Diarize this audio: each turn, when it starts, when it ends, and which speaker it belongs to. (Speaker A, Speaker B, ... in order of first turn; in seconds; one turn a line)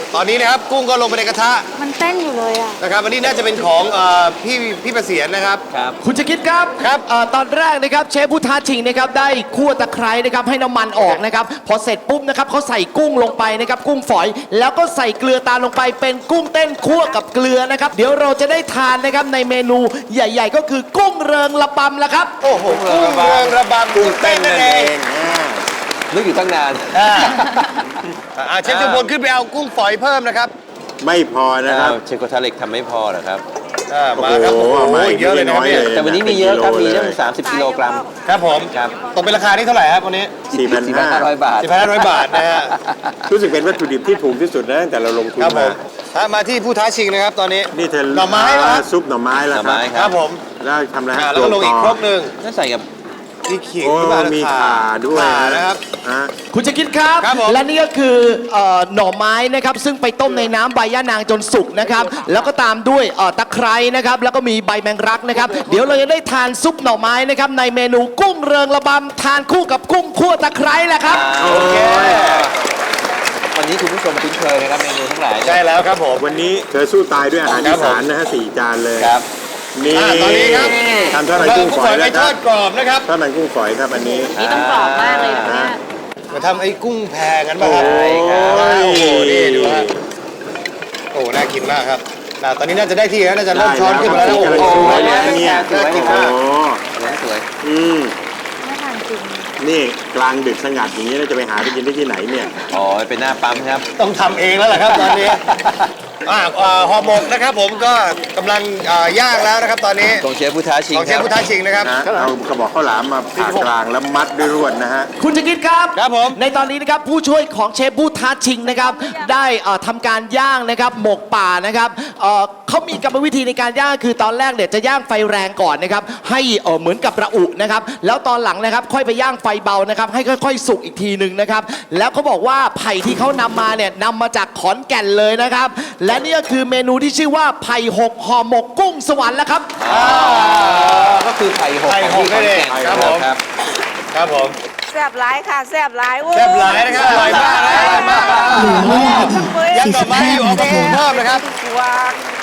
Speaker A: 0.1-1.7
Speaker B: 1.8-2.8
Speaker A: 2.8-5.6
Speaker C: 6.0-22.4
Speaker A: 22.4-24.9
Speaker D: 22.7-23.5
Speaker E: 23.9-25.7
Speaker D: 26.1-26.8
Speaker A: 26.9-27.4
Speaker A: 28.3-30.5
Speaker D: 28.7-29.0
Speaker E: 31.0-32.0
Speaker D: 31.7-33.4
Speaker A: 33.9-35.9
Speaker E: 34.1-37.3
Speaker D: 35.9-38.0
Speaker F: 37.5-38.1
Speaker A: 38.2-40.5
Speaker D: 38.7-39.0
Speaker E: 40.5-41.4
Speaker D: 40.5-42.3
Speaker A: 41.6-42.7
Speaker E: 43.3-45.8
Speaker A: 45.4-48.9
Speaker E: 47.7-50.0
Speaker D: 49.5-50.1
Speaker A: 49.8-50.5
Speaker E: 50.5-52.0
Speaker A: 51.1-52.4
Speaker D: 52.4-52.8
Speaker A: 53.4-55.9
Speaker E: 53.8-56.3
Speaker C: 56.5-71.3
Speaker A: 57.2-57.6
Speaker D: 71.1-72.5
Speaker E: 71.4-72.3
Speaker A: 71.4-72.5
Speaker D: 73.5-75.6
Speaker A: 75.4-76.2
Speaker E: 76.2-79.2
Speaker A: 77.5-78.0
Speaker E: 79.8-82.4
Speaker A: 79.9-83.1
Speaker E: 83.0-84.3
Speaker B: 84.2-85.8
Speaker D: 84.4-84.8
Speaker F: 84.8-85.3
Speaker A: 84.9-85.4
Speaker E: 85.4-85.8
Speaker A: 86.3-89.9
Speaker E: 87.6-90.0
Speaker D: 87.9-88.4
Speaker A: 91.1-96.4
Speaker E: 93.5-96.8
Speaker D: 94.1-96.2
Speaker D: 97.0-97.4
Speaker E: 97.6-98.2
Speaker B: 98.6-99.5
Speaker E: 99.6-102.5
Speaker D: 102.7-103.8
Speaker A: 103.9-105.4
Speaker A: 106.2-110.3
Speaker D: 110.2-111.3
Speaker A: 110.9-112.0
Speaker E: 111.8-115.1
Speaker C: 115.2-139.7
Speaker A: 116.0-116.4
Speaker A: 139.8-143.3
Speaker D: 139.8-143.4
Speaker E: 142.7-143.1
Speaker A: 144.1-144.6
Speaker F: 144.9-152.2
Speaker A: 146.3-151.4
Speaker D: 147.2-148.9
Speaker B: 148.9-149.3
Speaker B: 149.8-150.9